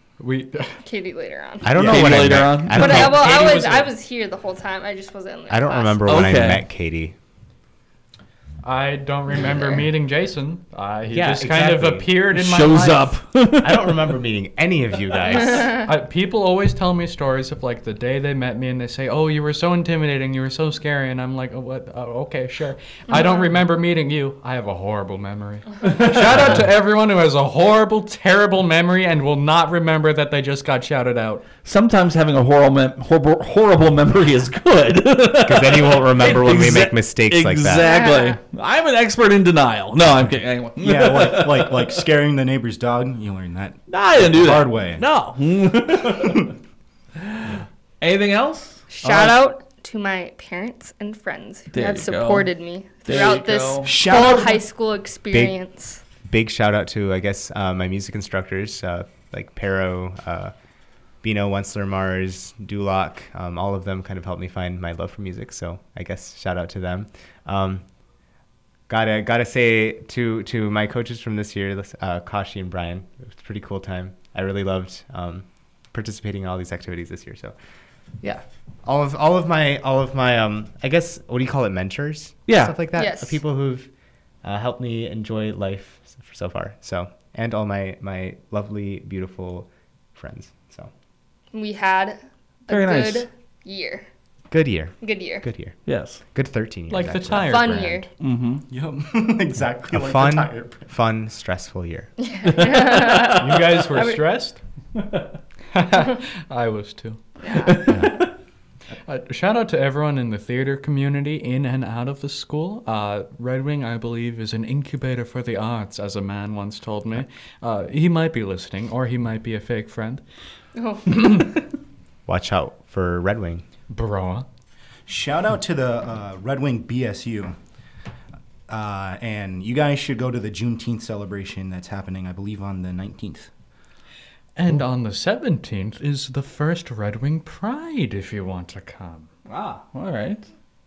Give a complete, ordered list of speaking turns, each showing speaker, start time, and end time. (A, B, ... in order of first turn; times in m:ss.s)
0:00.2-0:00.8 A
0:00.8-0:01.7 B
0:01.6-0:03.4 C
0:01.8-0:03.1 D
0:02.7-0:06.2 B
0:02.9-0:03.9 A
0:05.5-0:07.1 C
0:06.0-0:06.6 D
0:08.6-0:13.2 A
0:09.4-0:09.8 B
0:11.1-0:12.1 C
0:12.3-0:13.9 D
0:13.6-0:15.8 C
0:15.3-0:15.9 B
0:15.8-0:31.4 A
0:23.1-0:23.4 B
0:31.6-0:42.0 D
0:35.4-0:37.9 C
0:37.8-0:38.4 B
0:40.8-0:45.0 E
0:43.9-0:46.5 D
0:46.1-0:46.5 E
0:47.3-0:49.2 D
0:48.9-0:56.0 B
0:51.7-0:52.5 D
0:53.0-0:53.9 D
0:53.8-0:54.6 E
0:56.2-1:00.5 C
1:01.2-1:07.8 C
1:08.9-1:17.5 C
1:18.2-1:23.9 C
1:22.5-1:22.7 D
1:23.0-1:23.4 B
1:24.4-1:30.9 C
1:31.5-1:34.0 B
1:32.7-1:33.2 D
1:34.5-1:35.8 C
1:35.0-1:35.4 B
1:35.8-1:36.2 D
1:36.3-1:37.9 C
1:36.9-1:38.1 A
1:37.5-1:38.1 B
1:38.2-1:38.6 D
1:38.7-1:40.9 E
1:39.9-1:42.1 C
1:42.2-1:44.2 B
1:42.7-1:43.2 D
1:43.3-1:44.6 A
1:45.7-1:47.2 A
1:47.4-1:47.9 B
1:47.9-1:48.2 D
1:49.0-2:00.2 A
2:00.8-2:01.5 B
2:02.3-2:03.6 C
2:03.9-2:04.4 A
2:05.1-2:07.6 E
2:08.7-2:13.5 E
2:14.6-2:19.3 A
2:19.5-2:20.4 D